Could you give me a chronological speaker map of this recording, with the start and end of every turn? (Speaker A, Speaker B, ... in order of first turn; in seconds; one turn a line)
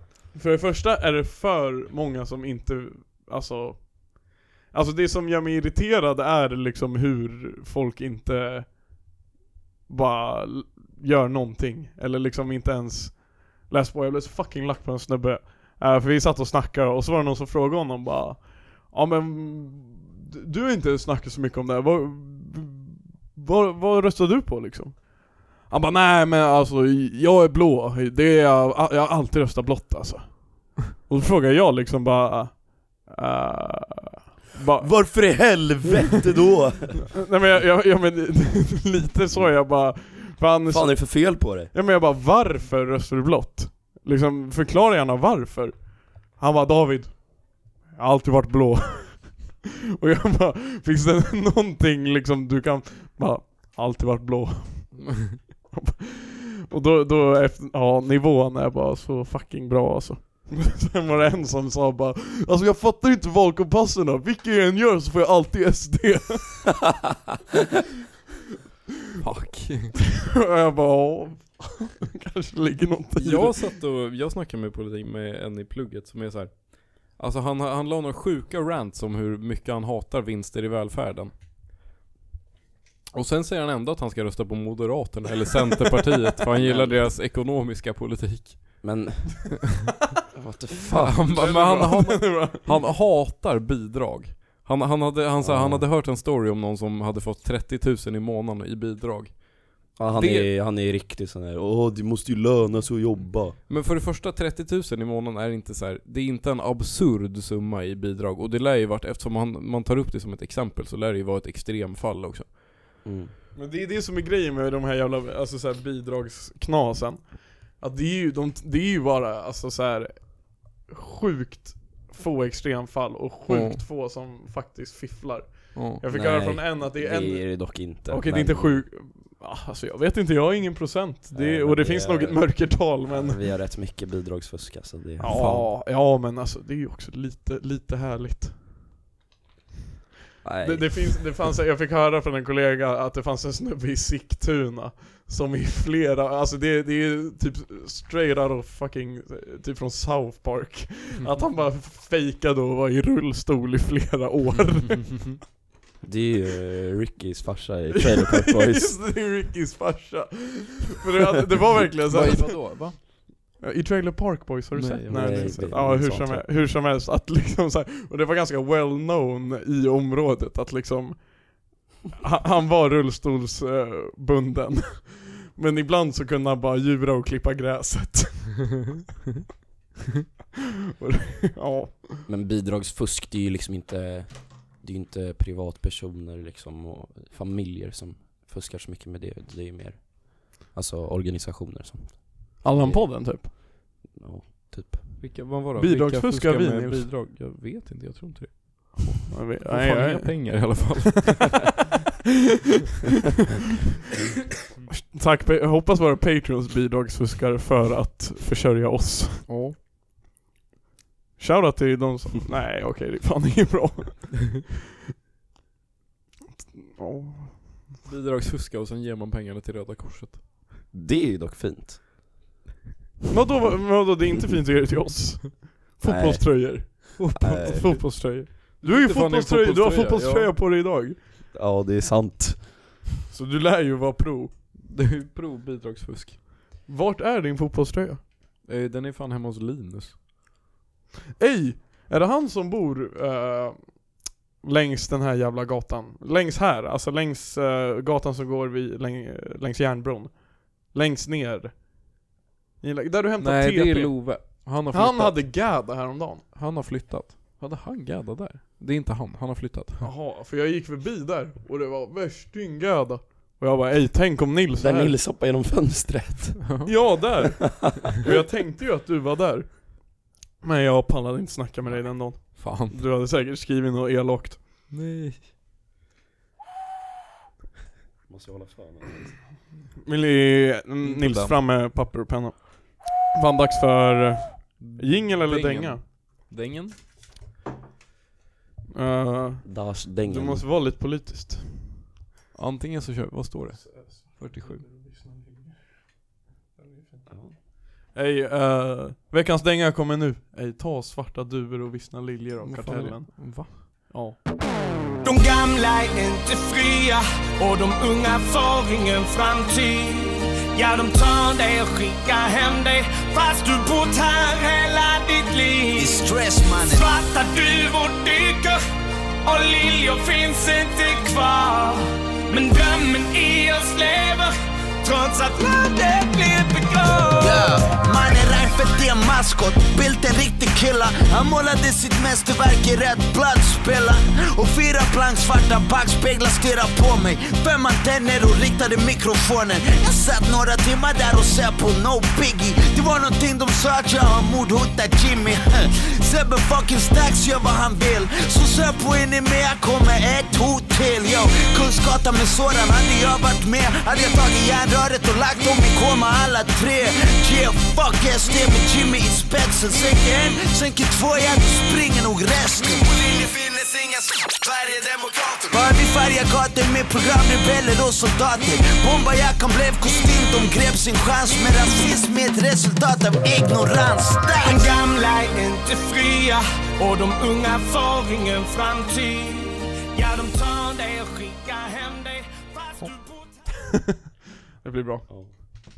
Speaker A: 0.3-8.8
Speaker A: 9.9-35.7
Speaker B: 34.8-37.1
Speaker A: 37.2-66.7
Speaker B: 40.7-41.7
Speaker C: 55.0-55.4
Speaker C: 69.2-70.0
Speaker A: 70.3-73.6
Speaker C: 73.2-81.3
Speaker C: 83.1-88.9
Speaker B: 86.6-87.1
Speaker B: 88.8-89.5
Speaker B: 90.3-91.4
Speaker C: 91.0-100.5
Speaker A: 91.2-92.7
Speaker B: 95.4-95.9
Speaker B: 100.0-103.6
Speaker C: 103.7-112.6
Speaker B: 113.0-113.3
Speaker A: 113.5-133.4
Speaker C: 123.5-123.8
Speaker C: 125.7-126.0
Speaker B: 126.1-128.8
Speaker B: 131.3-135.7
Speaker A: 135.2-138.6
Speaker C: 135.3-135.7
Speaker B: 140.4-141.2
Speaker A: 140.6-155.3
Speaker C: 154.9-155.3
Speaker B: 156.0-158.9
Speaker A: 157.9-163.0
Speaker C: 162.1-163.0
Speaker A: 163.6-178.8
Speaker C: 164.7-165.8
Speaker B: 165.1-166.5
Speaker A: 181.0-182.2
Speaker B: 182.2-193.1
Speaker A: 192.6-193.5
Speaker B: 194.1-195.1
Speaker C: 195.2-201.7
Speaker A: 195.8-197.1
Speaker A: 199.3-200.9
Speaker A: 204.9-209.5
Speaker C: 209.5-209.8
Speaker A: 211.4-214.6
Speaker A: 216.9-217.7
Speaker C: 218.0-220.4
Speaker B: 220.9-222.0
Speaker A: 223.3-231.2
Speaker B: 226.0-228.0
Speaker C: 227.2-227.8
Speaker C: 228.8-230.5
Speaker B: 231.5-233.0
Speaker A: 233.3-234.5
Speaker C: 234.7-236.4
Speaker A: 236.9-238.2
Speaker C: 238.6-240.2
Speaker A: 241.4-244.0
Speaker A: 244.6-251.8
Speaker A: 252.8-256.4
Speaker C: 253.4-255.6
Speaker C: 256.5-260.1
Speaker A: 260.0-265.1
Speaker B: 264.8-266.7
Speaker C: 266.6-266.9
Speaker A: 266.8-270.0
Speaker A: 270.6-274.6
Speaker C: 271.9-273.0
Speaker C: 274.9-275.4
Speaker B: 278.3-279.4
Speaker A: 280.0-286.0
Speaker C: 281.0-281.6
Speaker C: 284.8-286.9
Speaker A: 288.9-292.0
Speaker B: 289.6-290.6
Speaker C: 292.5-294.8
Speaker A: 293.8-295.7
Speaker B: 297.3-297.5
Speaker A: 298.1-304.4
Speaker C: 302.6-303.7
Speaker D: 305.2-318.8
Speaker E: 315.9-317.1
Speaker D: 319.4-327.8
Speaker E: 327.5-363.2
Speaker E: 365.6-374.9
Speaker D: 374.6-383.8
Speaker A: 384.8-385.7